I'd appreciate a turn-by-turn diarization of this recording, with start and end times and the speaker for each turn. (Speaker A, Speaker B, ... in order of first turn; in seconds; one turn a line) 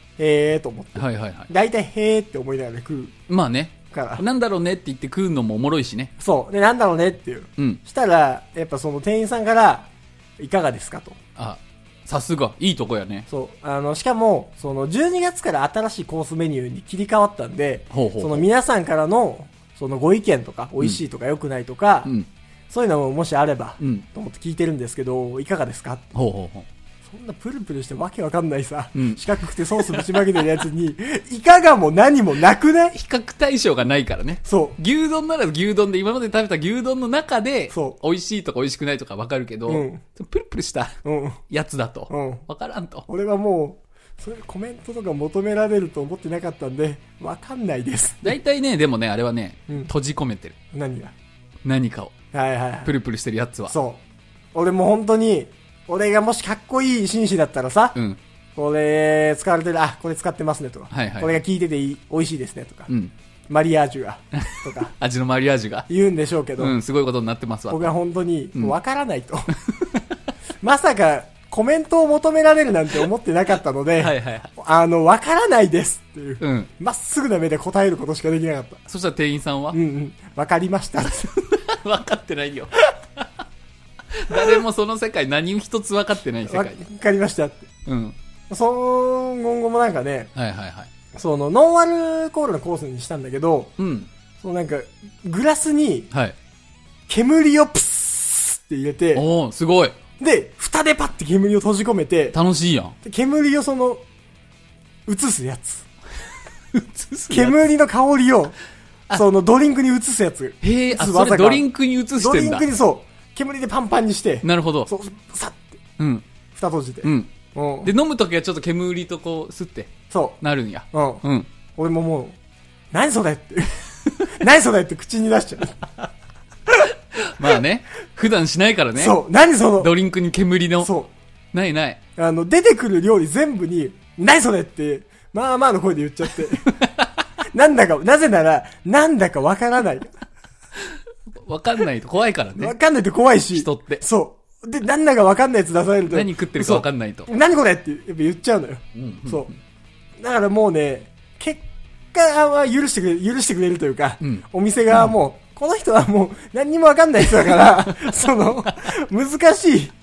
Speaker A: 0.2-3.1
Speaker B: 0.9-1.5
Speaker B: 3.3-6.1
Speaker A: 3.9-4.2
Speaker A: 6.2-11.2
Speaker B: 11.4-13.3
Speaker A: 13.3-22.1
Speaker B: 17.9-18.5
Speaker A: 22.7-26.1
Speaker B: 23.8-24.0
Speaker B: 26.1-26.7
Speaker A: 27.1-33.0
Speaker B: 28.9-30.4
Speaker B: 32.9-41.0
Speaker A: 34.4-34.8
Speaker A: 39.7-40.0
Speaker A: 41.0-41.4
Speaker B: 41.5-43.1
Speaker A: 42.1-42.4
Speaker A: 43.1-48.4
Speaker B: 48.2-50.5
Speaker A: 50.7-51.1
Speaker B: 51.6-52.2
Speaker A: 52.3-52.9
Speaker B: 52.8-53.7
Speaker A: 53.7-54.0
Speaker A: 54.5-58.0
Speaker A: 58.5-62.9
Speaker B: 60.9-61.4
Speaker B: 62.9-63.1
Speaker A: 63.5-64.9
Speaker B: 64.4-65.9
Speaker A: 65.9-66.8
Speaker B: 66.6-67.9
Speaker A: 67.7-69.5
Speaker B: 69.7-70.0
Speaker A: 70.6-78.8
Speaker B: 74.0-74.5
Speaker B: 76.4-76.7
Speaker B: 78.9-79.8
Speaker A: 79.7-81.3
Speaker B: 81.1-83.2
Speaker B: 84.1-86.8
Speaker A: 84.3-84.6
Speaker A: 86.5-87.6
Speaker B: 87.8-88.2
Speaker A: 88.5-90.3
Speaker B: 90.3-90.9
Speaker A: 91.1-93.7
Speaker B: 93.8-94.1
Speaker A: 94.4-96.1
Speaker B: 96.1-96.3
Speaker A: 97.1-99.2
Speaker B: 99.1-100.0
Speaker A: 100.2-102.3
Speaker B: 102.3-103.0
Speaker A: 103.0-104.0
Speaker A: 105.1-105.9
Speaker B: 106.7-107.6
Speaker A: 107.3-108.5
Speaker A: 109.1-111.7
Speaker B: 110.6-112.7
Speaker A: 112.2-115.7
Speaker B: 114.4-114.9
Speaker B: 116.0-116.2
Speaker A: 116.5-117.9
Speaker B: 117.0-117.3
Speaker B: 117.8-121.5
Speaker A: 120.1-120.4
Speaker A: 120.9-121.2
Speaker A: 121.8-122.4
Speaker A: 122.9-125.8
Speaker B: 126.8-129.2
Speaker A: 128.9-129.9
Speaker B: 129.8-130.9
Speaker A: 130.8-131.1
Speaker B: 131.5-132.0
Speaker A: 132.2-136.7
Speaker B: 136.7-137.1
Speaker A: 137.5-140.1
Speaker B: 140.9-142.7
Speaker A: 142.6-149.5
Speaker B: 143.5-144.0
Speaker B: 146.1-147.3
Speaker B: 148.9-149.6
Speaker A: 150.2-159.9